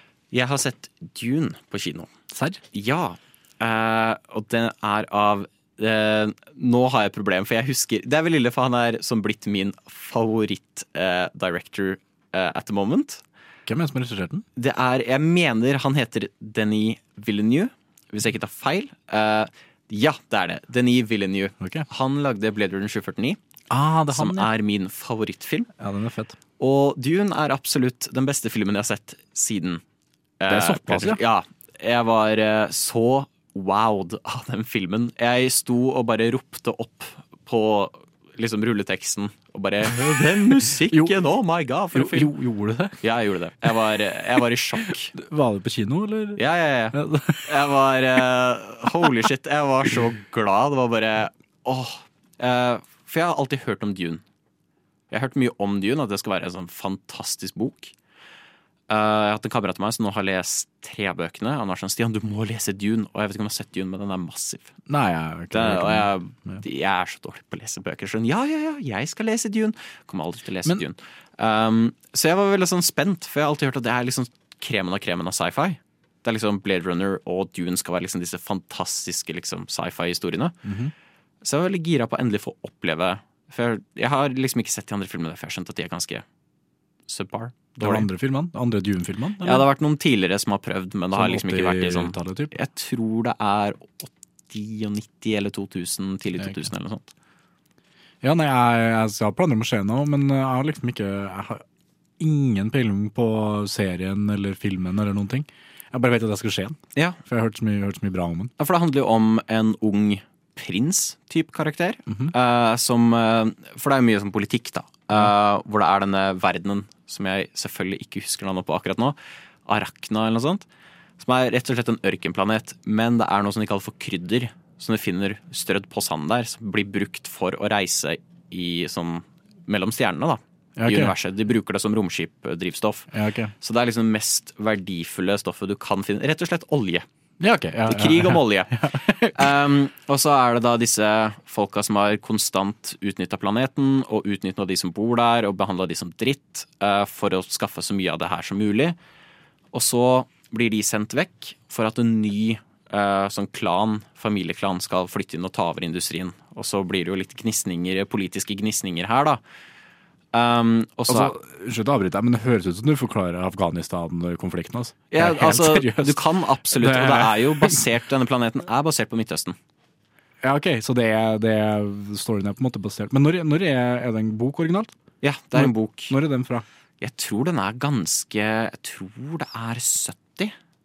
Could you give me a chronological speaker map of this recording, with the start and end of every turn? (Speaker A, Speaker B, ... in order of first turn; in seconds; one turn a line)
Speaker A: 0.3-2.1
Speaker B: 2.3-2.6
Speaker A: 2.7-13.2
Speaker B: 13.7-14.4
Speaker A: 14.6-23.4
Speaker B: 21.6-21.9
Speaker B: 23.7-24.5
Speaker A: 24.1-25.7
Speaker B: 25.8-26.4
Speaker A: 26.6-29.8
Speaker A: 30.4-42.3
Speaker B: 30.5-31.2
Speaker B: 39.9-41.2
Speaker B: 41.9-43.0
Speaker A: 43.0-45.1
Speaker B: 44.8-47.5
Speaker A: 46.4-54.2
Speaker A: 55.1-57.9
Speaker A: 58.9-64.7
Speaker B: 64.9-66.6
Speaker A: 65.5-80.6
Speaker B: 80.6-80.9
Speaker A: 81.4-86.2
Speaker A: 87.1-88.1
Speaker B: 87.8-89.7
Speaker A: 89.4-97.1
Speaker B: 91.1-92.5
Speaker B: 96.4-96.7
Speaker B: 98.2-101.6
Speaker B: 102.2-108.5
Speaker A: 108.6-120.6
Speaker B: 112.1-112.3
Speaker A: 121.2-133.1
Speaker B: 130.8-131.1
Speaker B: 133.1-133.5
Speaker A: 133.6-137.1
Speaker B: 137.4-139.5
Speaker A: 137.9-149.0
Speaker A: 149.7-159.4
Speaker A: 160.3-161.3
Speaker B: 161.1-167.8
Speaker A: 165.1-169.6
Speaker B: 170.4-174.9
Speaker A: 175.2-176.2
Speaker B: 175.5-176.6
Speaker A: 177.0-180.5